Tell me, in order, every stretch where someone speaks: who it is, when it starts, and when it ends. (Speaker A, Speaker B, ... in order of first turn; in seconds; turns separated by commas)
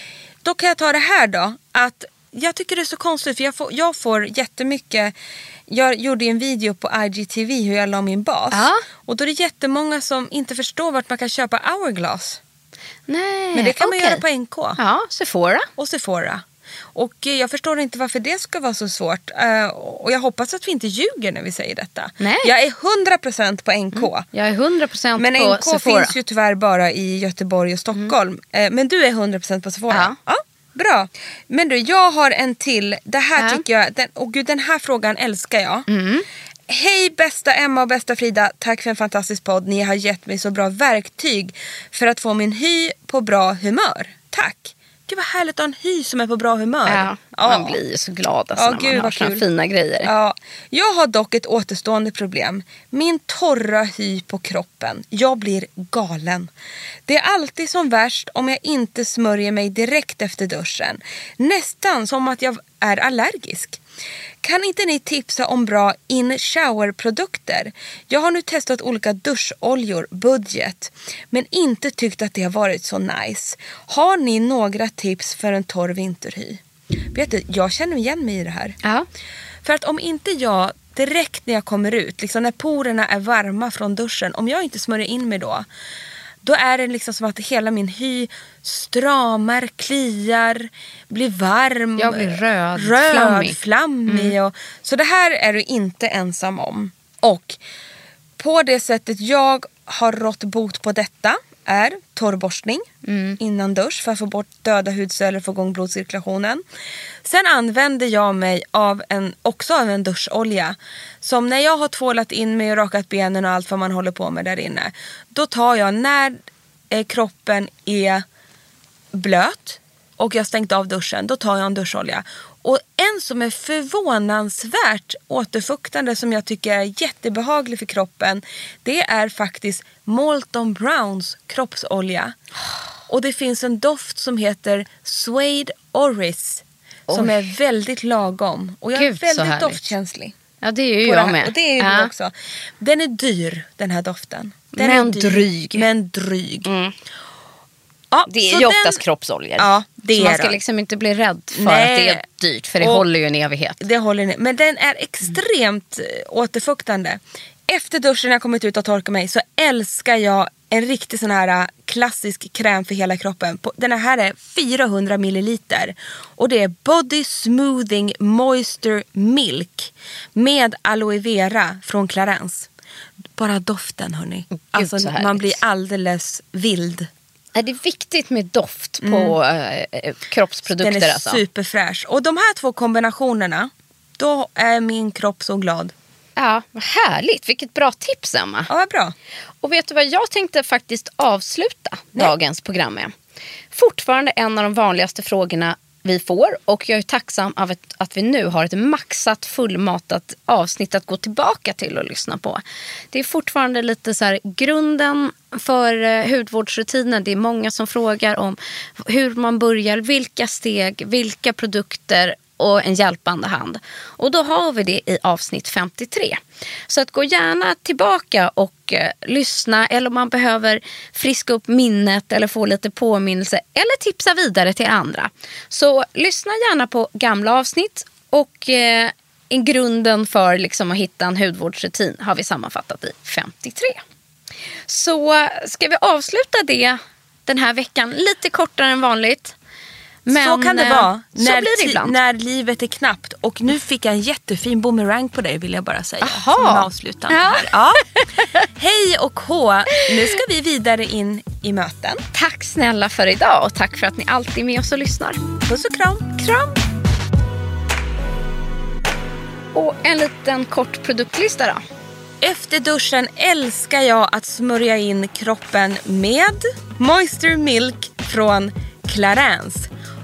Speaker A: 0.4-5.1, Speaker A: 5.7-12.4, Speaker B: 8.5-8.8, Speaker B: 13.1-14.2, Speaker A: 13.5-14.8, Speaker B: 14.8-15.7, Speaker A: 15.8-16.4, Speaker A: 16.9-24.2, Speaker B: 22.2-22.5, Speaker B: 23.9-26.1, Speaker A: 25.2-35.9, Speaker B: 29.9-30.1, Speaker B: 33.4-33.6, Speaker B: 35.9-36.2, Speaker A: 36.7-47.8, Speaker B: 46.9-50.1, Speaker A: 48.5-49.4, Speaker A: 50.0-56.5, Speaker A: 57.1-63.8, Speaker A: 64.4-76.6, Speaker A: 77.1-78.8, Speaker A: 79.6-85.7, Speaker A: 86.4-97.6, Speaker B: 92.0-94.3, Speaker A: 98.4-102.9, Speaker B: 103.0-103.4, Speaker A: 103.4-106.6, Speaker A: 107.2-116.4, Speaker A: 116.9-118.2, Speaker A: 119.1-132.3, Speaker A: 133.1-140.3, Speaker B: 137.1-137.5, Speaker B: 138.9-139.8, Speaker B: 140.6-142.1, Speaker A: 141.0-146.7, Speaker B: 144.8-145.9, Speaker B: 146.6-146.9, Speaker A: 148.1-149.0, Speaker B: 148.3-153.8, Speaker A: 149.6-150.6, Speaker A: 151.6-152.2, Speaker A: 153.8-172.7, Speaker A: 173.3-177.1, Speaker B: 174.6-175.6, Speaker B: 177.5-181.4, Speaker A: 179.0-179.3, Speaker A: 180.7-185.9, Speaker B: 186.4-188.7, Speaker A: 188.7-189.1, Speaker B: 189.6-193.1, Speaker B: 193.7-202.6, Speaker B: 203.1-234.0, Speaker B: 234.9-239.5, Speaker B: 240.2-242.1, Speaker A: 240.3-248.0, Speaker B: 246.2-248.4, Speaker A: 248.8-252.2, Speaker B: 252.3-255.4, Speaker A: 255.7-256.8, Speaker B: 259.7-261.8, Speaker A: 262.4-269.9